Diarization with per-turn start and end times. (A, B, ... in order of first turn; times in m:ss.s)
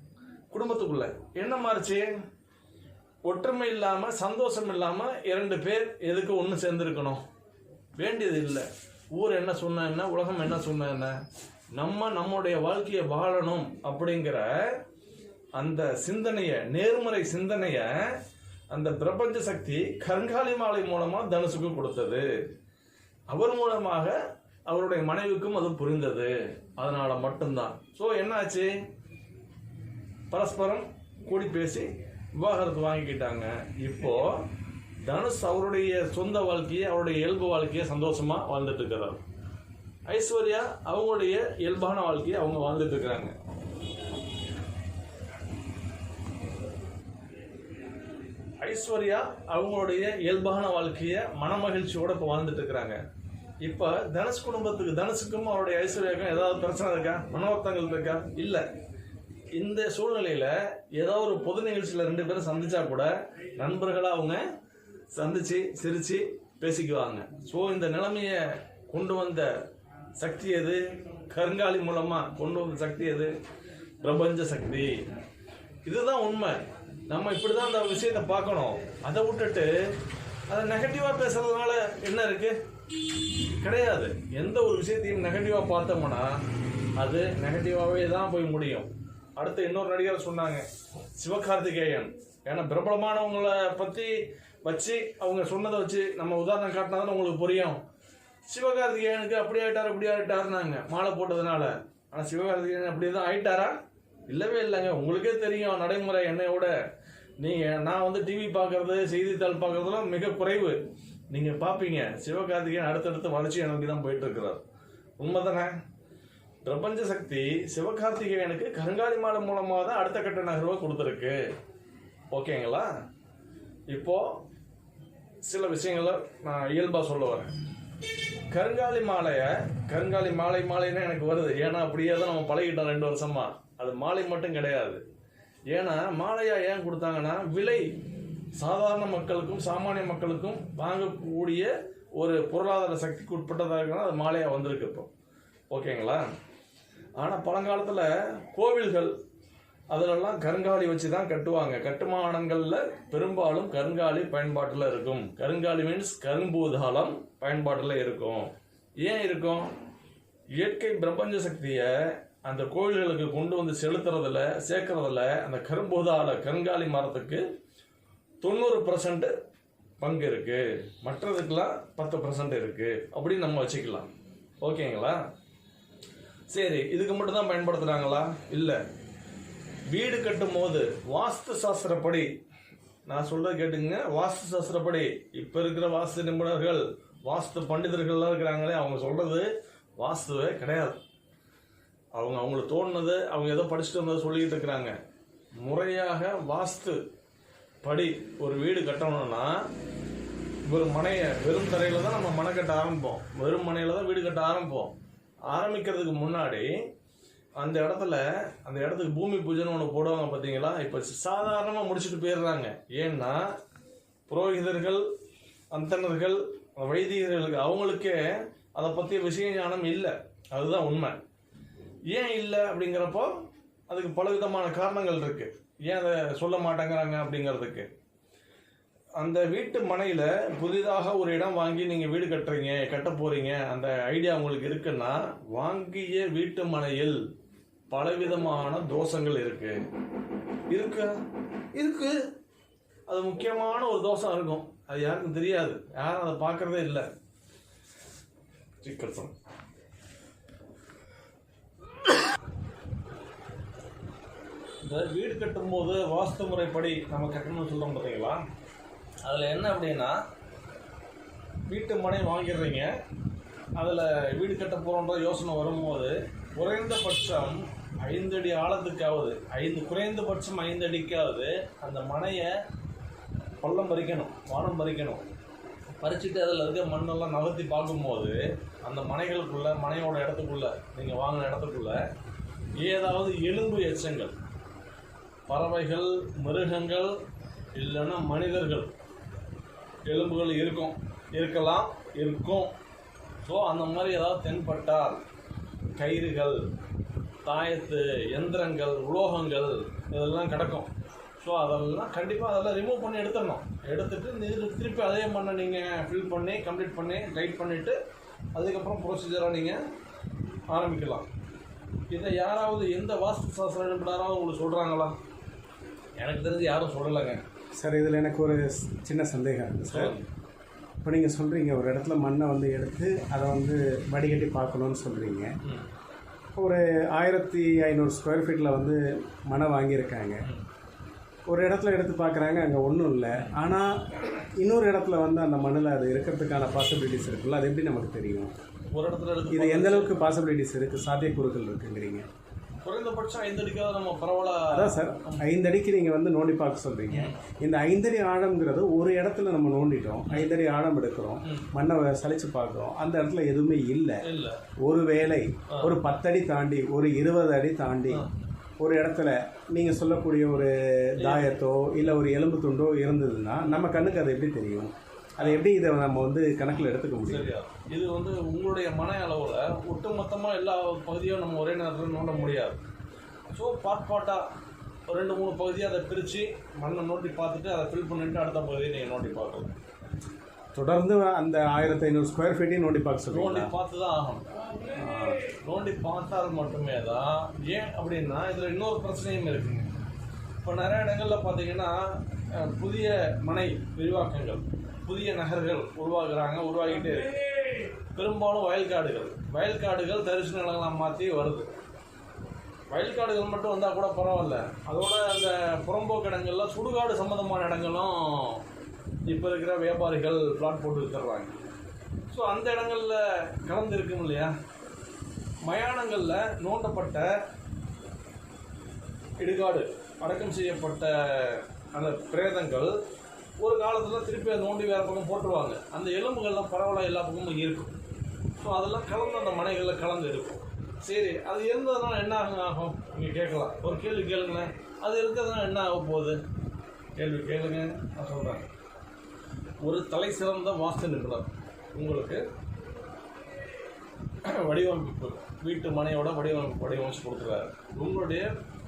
0:00.5-0:02.1 A
0:03.2-0:07.2 A
0:08.0-0:11.2 A
0:11.8-0:14.8 A
0:15.6-0:18.2 A
0:18.7-0:22.3 A
0:23.3-0:28.8 A
0:30.3-0:34.4 A
0:35.0-0:39.2 A
0:40.1-0:43.3 A
0:48.6-0:53.0 A
0:53.6-0:58.6 A
0:59.5-1:04.4 A
1:05.1-1:09.5 A
1:10.2-1:13.3 A
1:14.0-1:15.0 A
1:15.8-1:16.6 A
1:17.1-1:19.9 A
1:20.5-1:22.6 A
1:23.6-1:26.4 A
1:27.0-1:30.6 A
1:31.2-1:37.8 A
1:38.5-1:43.8 A
1:44.3-1:46.7 A
1:47.4-1:50.8 A
1:51.3-1:54.6 A
1:55.2-1:55.7 A
1:56.6-2:01.4 A
2:02.3-2:02.9 A
2:03.9-2:04.4 A
2:05.4-2:07.5 A
2:08.5-2:15.0 A
2:15.7-2:17.9 A
2:18.6-2:25.1 A
2:25.7-2:26.2 A
2:27.2-2:29.2 A
2:29.9-2:39.7 A
2:40.6-2:41.9 A
2:42.4-2:47.4 A
2:48.4-2:49.3 A
2:50.0-2:54.1 A
2:54.6-2:55.2 A
2:56.5-2:58.8 A
2:59.9-3:02.3 A
3:03.1-3:11.0 A
3:12.2-3:15.0 A
3:15.6-3:17.0 A
3:17.8-3:19.6 A
3:20.7-3:24.9 A
3:25.5-3:26.7 A
3:27.6-3:33.5 A
3:34.3-3:35.0 A
3:35.7-3:38.2 A
3:38.7-3:41.2 A
3:42.1-3:43.3 A
3:43.9-3:47.9 A
3:49.2-3:57.2 A
3:57.9-3:59.8 A
4:00.7-4:01.1 A
4:01.8-4:02.2 A
4:03.1-4:07.1 A
4:08.8-4:09.3 A
4:14.8-4:18.4 A
4:19.2-4:20.2 A
4:21.7-4:22.9 A
4:23.8-4:32.6 A
4:33.6-4:35.2 A
4:36.0-4:42.0 A
4:42.8-4:44.4 A
4:45.5-4:47.2 A
4:47.8-4:48.9 A
4:50.1-4:52.7 A
4:53.4-4:55.2 A
4:56.0-4:56.7 A
4:57.4-5:00.9 A
5:01.4-5:08.0 A
5:08.6-5:09.8 A
5:10.7-5:11.3 A
5:12.1-5:15.2 A
5:16.2-5:17.4 A
5:17.8-5:20.2 B
5:19.9-5:20.3 A
5:21.0-5:25.5 B
5:26.6-5:30.4 B
5:31.5-5:38.5 B
5:38.9-5:40.4 A
5:39.5-5:42.3 B
5:42.8-5:45.4 A
5:44.7-5:54.2 B
5:47.1-5:47.4 A
5:54.2-5:54.6 A
5:54.8-5:58.2 B
5:55.7-5:56.0 A
5:58.8-6:07.5 B
6:01.2-6:01.6 A
6:07.2-6:12.8 A
6:13.5-6:14.5 A
6:15.1-6:19.8 A
6:20.7-6:23.7 B
6:23.3-6:24.5 A
6:24.9-6:25.4 B
6:25.4-6:29.9 A
6:30.6-6:41.7 A
6:42.9-6:48.6 A
6:49.3-6:51.5 A
6:52.3-6:54.5 A
6:55.6-6:57.3 A
6:59.4-7:02.9 A
7:03.6-7:07.9 A
7:08.6-7:16.4 A
7:17.2-7:18.7 A
7:19.8-7:22.4 A
7:24.4-7:28.5 A